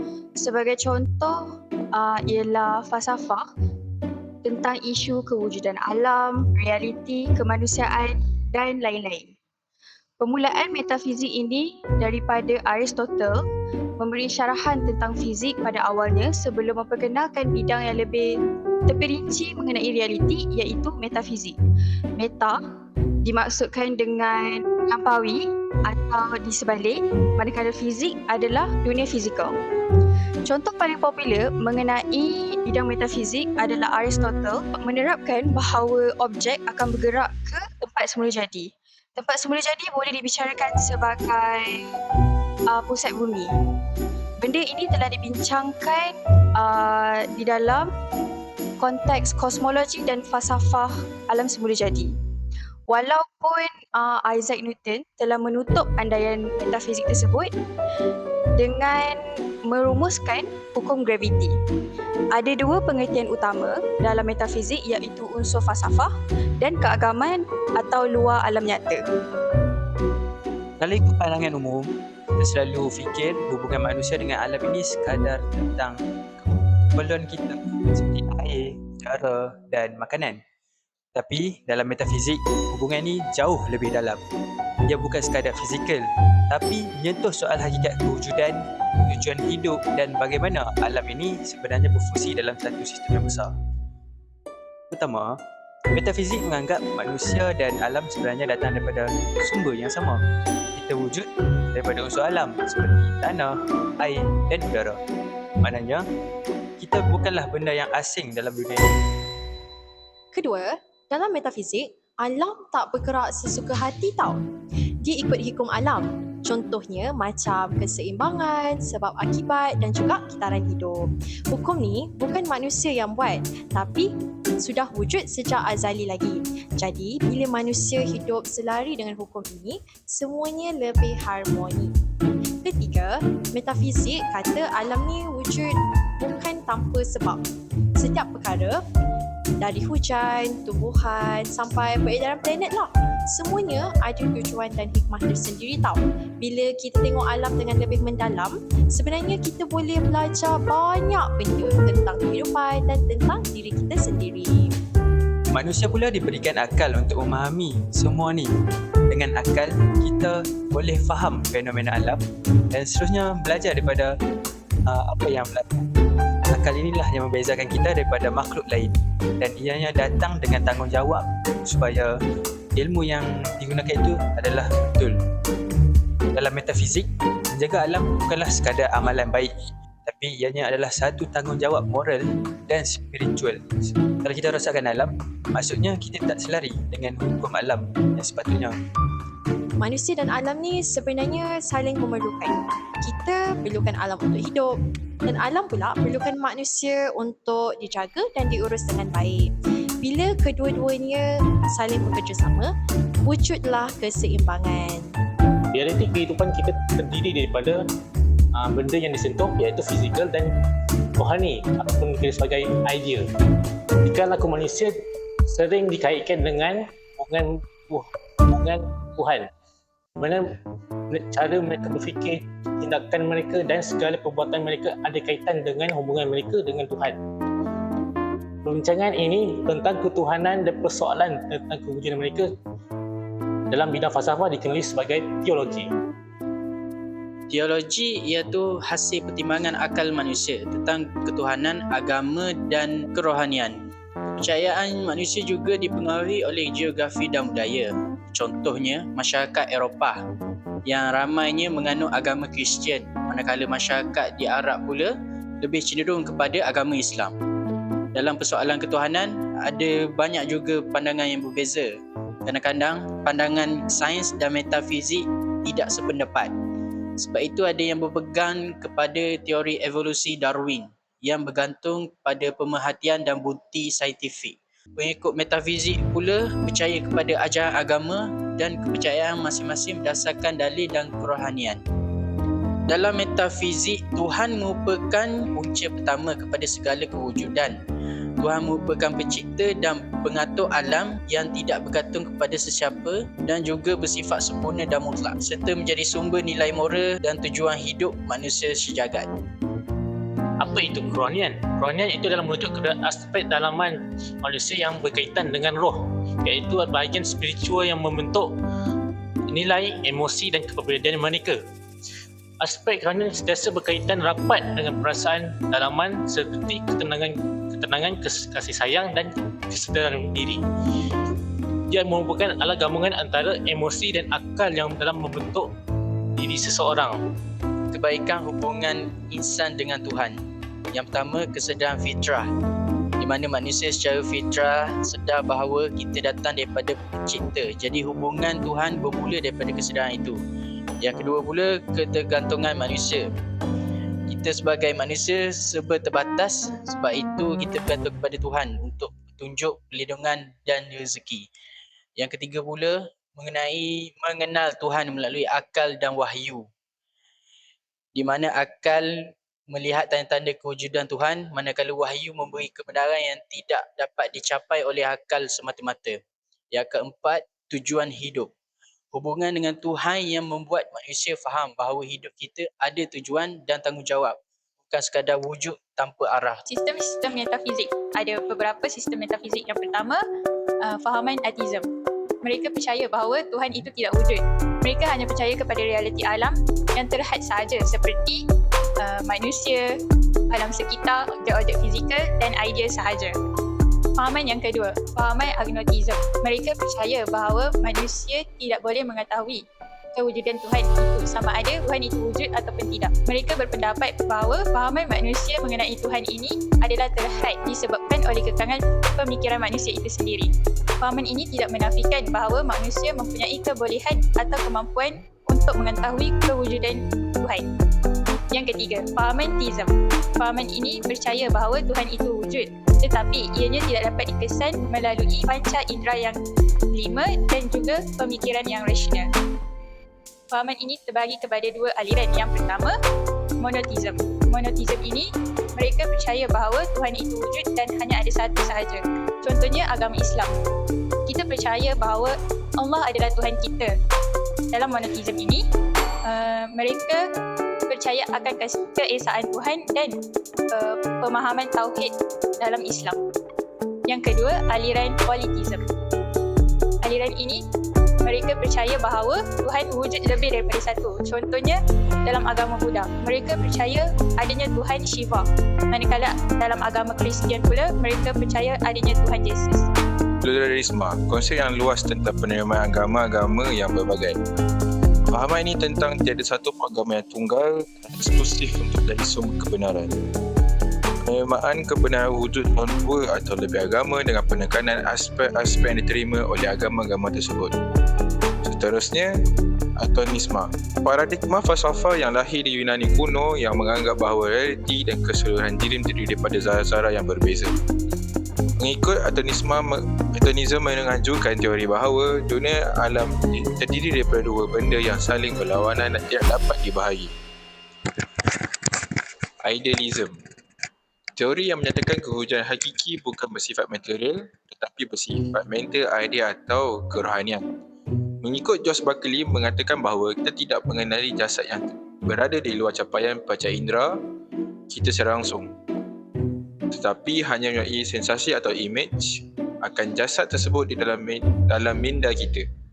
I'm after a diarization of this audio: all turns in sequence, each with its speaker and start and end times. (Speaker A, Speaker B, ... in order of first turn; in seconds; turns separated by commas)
Speaker A: 0.4-1.4, Speaker A: 1.9-3.5, Speaker A: 4.4-9.3, Speaker A: 10.2-13.4, Speaker A: 14.0-18.3, Speaker A: 18.9-21.6, Speaker A: 22.2-22.6, Speaker A: 23.2-29.5, Speaker A: 30.4-42.0, Speaker A: 42.7-43.5, Speaker A: 44.4-47.9, Speaker A: 48.8-52.1, Speaker A: 52.9-57.5, Speaker A: 58.6-61.5, Speaker A: 62.3-69.0, Speaker B: 70.8-76.0, Speaker B: 76.9-80.4, Speaker B: 81.1-84.3, Speaker B: 84.9-93.5, Speaker B: 94.9-95.4, Speaker B: 95.9-100.2, Speaker B: 100.7-105.0, Speaker B: 105.6-106.0, Speaker B: 106.8-109.0, Speaker C: 110.3-114.4, Speaker C: 115.0-131.9, Speaker C: 132.6-137.4, Speaker C: 138.0-138.8, Speaker C: 139.6-154.7, Speaker B: 155.5-158.5, Speaker B: 159.1-162.2, Speaker B: 162.7-164.1, Speaker B: 164.9-165.8, Speaker B: 166.5-172.1, Speaker B: 172.8-175.2, Speaker B: 176.3-179.5, Speaker B: 180.0-188.8, Speaker C: 189.8-194.7, Speaker C: 195.3-199.4, Speaker C: 200.0-202.7, Speaker C: 203.3-205.1, Speaker D: 205.7-207.8, Speaker D: 208.6-210.5, Speaker D: 211.2-213.3, Speaker D: 214.0-215.0, Speaker D: 215.5-219.5, Speaker D: 220.2-220.5, Speaker D: 221.1-227.2, Speaker D: 228.6-232.5, Speaker D: 233.7-235.9, Speaker E: 237.5-243.8, Speaker E: 244.3-250.2, Speaker E: 250.9-257.3, Speaker E: 258.1-261.9, Speaker E: 262.5-266.5, Speaker E: 267.2-281.8, Speaker E: 282.9-287.8, Speaker E: 288.4-299.3, Speaker D: 300.6-308.5, Speaker D: 309.5-311.6, Speaker D: 312.6-320.6, Speaker D: 321.9-325.7, Speaker D: 326.4-327.2, Speaker E: 327.9-330.4, Speaker E: 330.9-332.5, Speaker E: 333.2-340.4, Speaker E: 341.0-343.2, Speaker E: 344.3-351.5, Speaker E: 352.2-356.7, Speaker E: 358.1-359.1, Speaker E: 359.7-366.2, Speaker E: 366.7-368.5, Speaker E: 369.1-374.4, Speaker E: 374.9-376.6, Speaker F: 376.7-380.2, Speaker B: 377.7-378.1, Speaker F: 380.9-381.9, Speaker F: 382.4-388.4, Speaker B: 383.7-384.1, Speaker B: 387.0-387.7, Speaker F: 389.1-389.8, Speaker F: 390.5-393.3, Speaker B: 392.3-392.6, Speaker F: 394.2-399.6, Speaker B: 394.6-396.4, Speaker B: 397.2-397.8, Speaker F: 400.2-410.5, Speaker B: 406.2-406.9, Speaker F: 411.0-417.6, Speaker B: 412.9-413.3, Speaker F: 418.5-426.4, Speaker F: 426.9-429.2, Speaker B: 428.4-428.9, Speaker F: 430.5-432.9, Speaker F: 433.6-440.5, Speaker F: 441.3-443.9, Speaker F: 444.7-445.6, Speaker F: 446.3-447.2, Speaker F: 447.9-450.2, Speaker F: 450.7-452.1, Speaker F: 452.6-453.2, Speaker F: 454.1-455.8, Speaker F: 457.0-457.6, Speaker F: 458.2-469.9, Speaker G: 470.4-474.4, Speaker G: 475.3-480.1, Speaker G: 481.2-487.8, Speaker G: 488.6-489.3, Speaker G: 490.0-497.7, Speaker G: 498.8-507.3, Speaker G: 509.6-510.4, Speaker G: 511.4-517.6, Speaker G: 518.4-524.2, Speaker G: 524.9-525.7, Speaker G: 526.9-532.6